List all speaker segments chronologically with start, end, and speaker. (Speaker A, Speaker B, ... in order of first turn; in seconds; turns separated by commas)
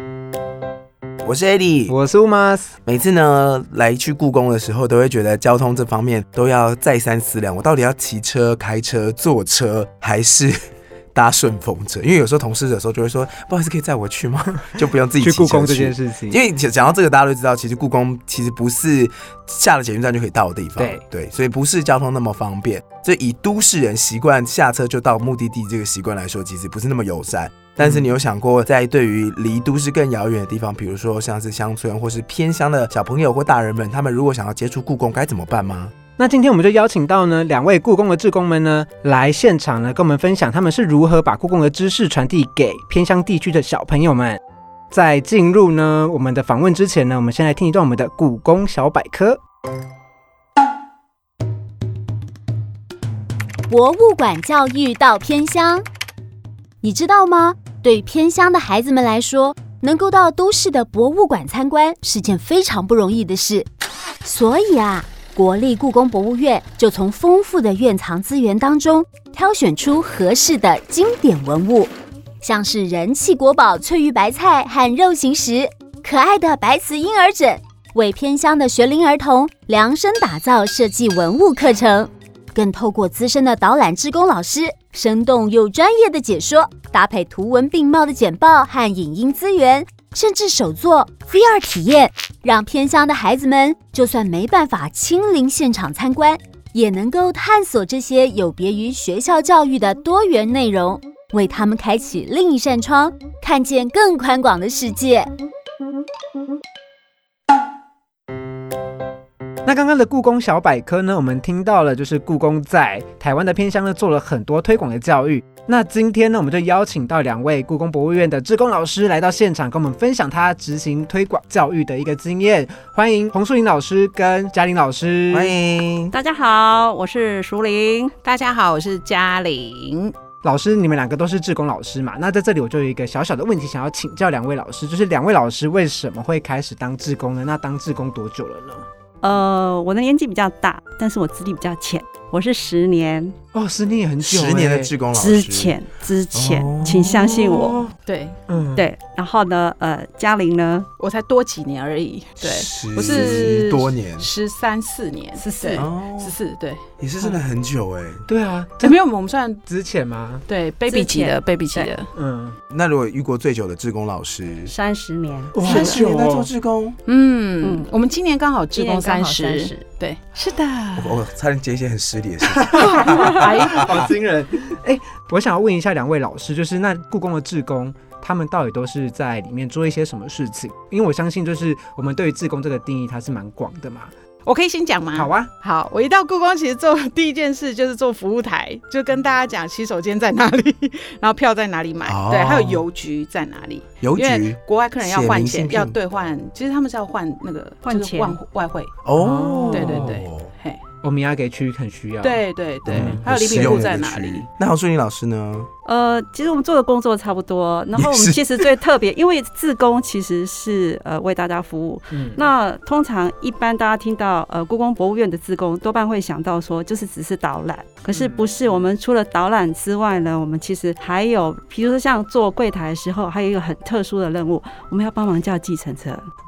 Speaker A: 1.2-1.9, Speaker B: 1.9-2.7, Speaker A: 2.9-10.6, Speaker A: 11.1-35.9, Speaker B: 15.2-16.4, Speaker B: 20.8-21.0, Speaker B: 36.2-44.4, Speaker B: 44.9-49.4, Speaker C: 53.7-55.8, Speaker C: 56.8-63.7, Speaker C: 64.2-105.3, Speaker B: 109.7-125.5, Speaker A: 125.3-126.2, Speaker D: 126.1-128.1, Speaker E: 128.2-130.1, Speaker B: 130.4-138.9, Speaker D: 139.2-143.3, Speaker B: 143.5-144.9, Speaker A: 144.2-145.8, Speaker D: 145.1-147.8, Speaker A: 146.3-147.7, Speaker B: 146.8-147.9, Speaker E: 148.1-148.4, Speaker B: 148.5-148.9, Speaker D: 148.8-150.9, Speaker E: 151.0-157.4, Speaker A: 152.4-154.3, Speaker D: 155.4-155.9, Speaker A: 155.8-156.4, Speaker A: 157.0-158.2, Speaker B: 158.3-159.0, Speaker E: 158.8-159.6, Speaker B: 159.7-160.4, Speaker E: 160.5-162.1, Speaker D: 160.9-161.9, Speaker B: 162.1-162.6, Speaker A: 162.7-164.7, Speaker D: 164.7-165.7, Speaker B: 165.5-166.5, Speaker A: 165.6-167.0, Speaker E: 165.7-166.0, Speaker E: 167.1-171.2, Speaker D: 167.6-167.9, Speaker D: 168.8-169.8, Speaker A: 171.0-174.1, Speaker B: 172.5-184.1, Speaker E: 172.8-174.1, Speaker E: 184.5-198.9, Speaker B: 185.1-185.5, Speaker A: 192.0-192.8, Speaker A: 194.0-196.0, Speaker D: 197.8-198.4, Speaker A: 199.0-200.5, Speaker B: 199.2-200.2, Speaker E: 199.7-200.8, Speaker B: 201.0-203.8, Speaker E: 202.2-204.5, Speaker A: 202.9-205.7, Speaker D: 205.8-226.2, Speaker A: 207.9-208.7, Speaker B: 212.1-212.4, Speaker B: 218.1-218.9